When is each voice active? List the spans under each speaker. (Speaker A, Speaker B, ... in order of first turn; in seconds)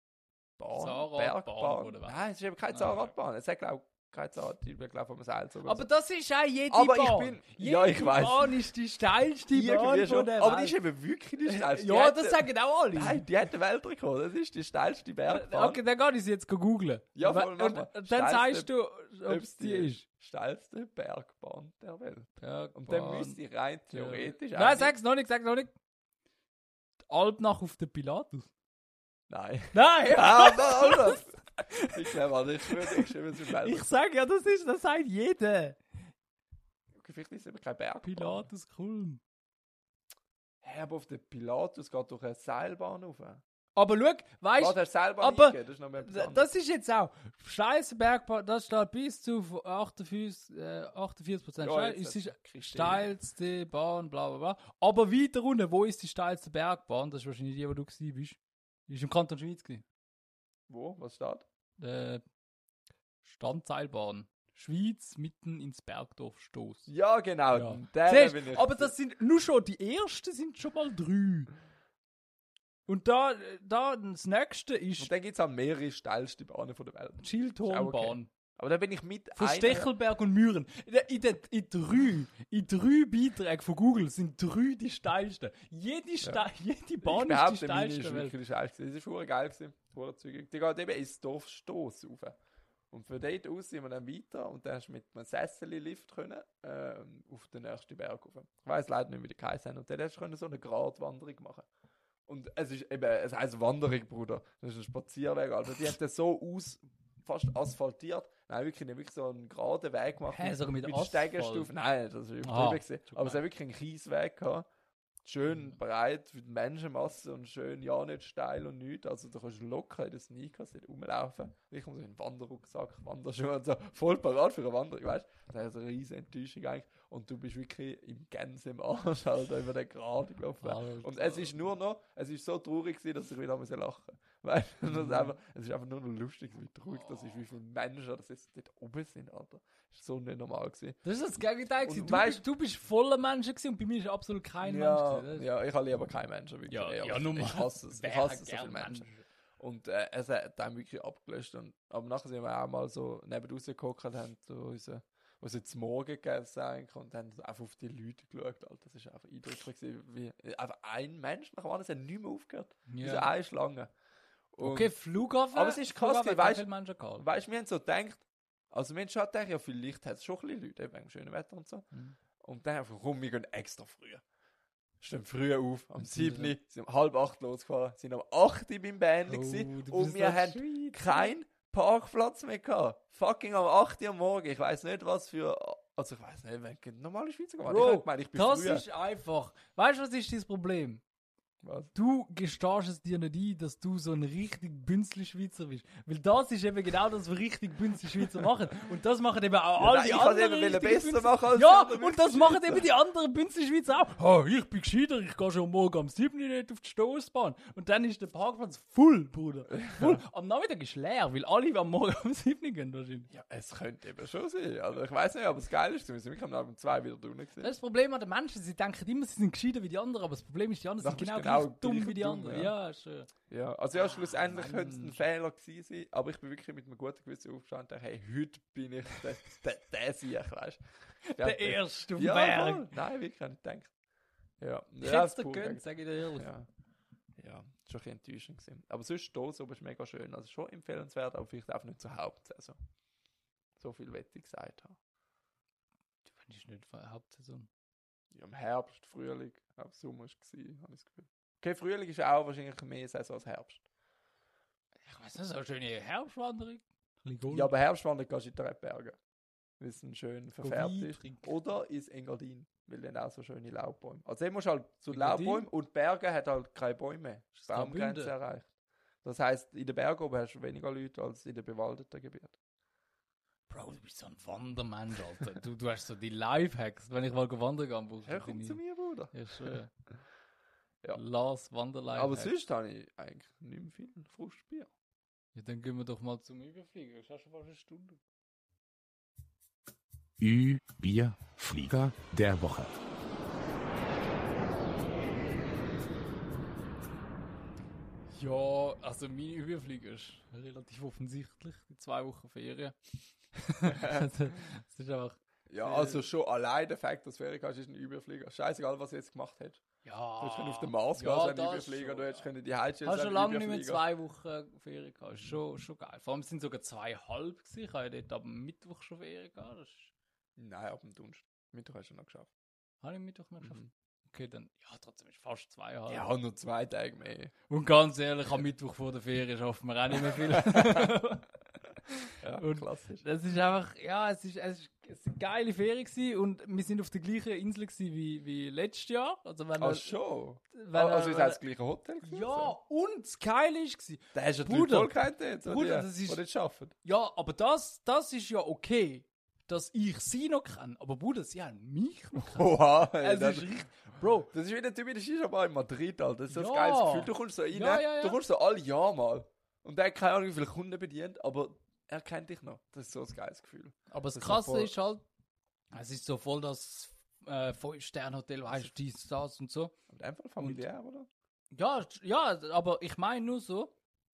Speaker A: 0.6-5.8, 6.7-8.6, 9.5-15.8, 17.1-24.9, 29.3-33.9, 37.0-38.5, 40.6-43.4, 44.6-46.5, 51.6-53.1, 60.7-61.5, 66.9-68.9, 75.0-79.9, 87.0-92.4, 92.9-101.7, 102.3-114.7, 115.2-141.0, 141.8-142.4, 144.6-149.1, 149.6-163.9, 164.5-164.9, 165.5-166.7, 167.2-171.9, 172.4-174.2, 175.0-188.8, 191.6-191.9, 199.8-202.9, 209.8-210.2, 213.3-217.7, 221.0-222.7, 223.5-230.8, 231.3-233.9, 234.6-236.7, 237.4-242.8, 243.8-245.0, 248.3-253.8, 257.5-259.2, 259.8-268.7, 269.2-272.6, 278.2-279.7, 282.1-284.9, 303.8-304.3, 305.7-309.8, 310.4-314.0, 320.6-322.5, 323.6-323.9, 326.1-327.5, 330.2-331.1, 332.4-333.2, 339.8-342.8, 344.3-346.9, 352.4-353.7, 354.5-364.9, 370.1-371.3
Speaker B: 0.7-2.2, 2.7-3.0, 5.6-10.8, 11.4-13.2, 15.3-20.0, 22.4-23.4, 23.9-25.7, 27.1-28.5, 29.7-32.1, 32.7-35.8, 38.0-39.2, 43.8-59.8, 61.8-62.2, 63.2-66.9, 67.5-71.5, 72.9-75.1, 77.2-78.3, 79.3-88.3, 110.3-111.7, 112.4-113.4, 130.6-131.5, 134.9-135.3, 137.0-137.3, 141.0-145.4, 146.7-149.2, 162.9-163.3, 164.6-167.2, 176.1-176.5, 179.3-181.3, 187.6-191.0, 191.9-213.3, 217.6-223.3, 223.9-225.2, 231.2-232.9, 235.0-236.5, 246.3-247.7, 255.0-257.7, 260.6-261.5, 265.1-265.6, 267.6-268.3, 273.7-278.8, 279.3-279.9, 281.1-282.5, 285.5-288.2, 298.3-302.9, 303.5-306.2, 310.0-312.5, 313.0-320.1, 323.0-326.3, 327.7-331.5, 332.5-340.1, 340.7-341.6, 342.2-345.1, 345.6-346.4, 347.0-354.5, 356.5-358.4, 364.1-365.2, 365.9-369.9, 370.6-370.8, 371.7-373.9
Speaker C: 290.4-293.0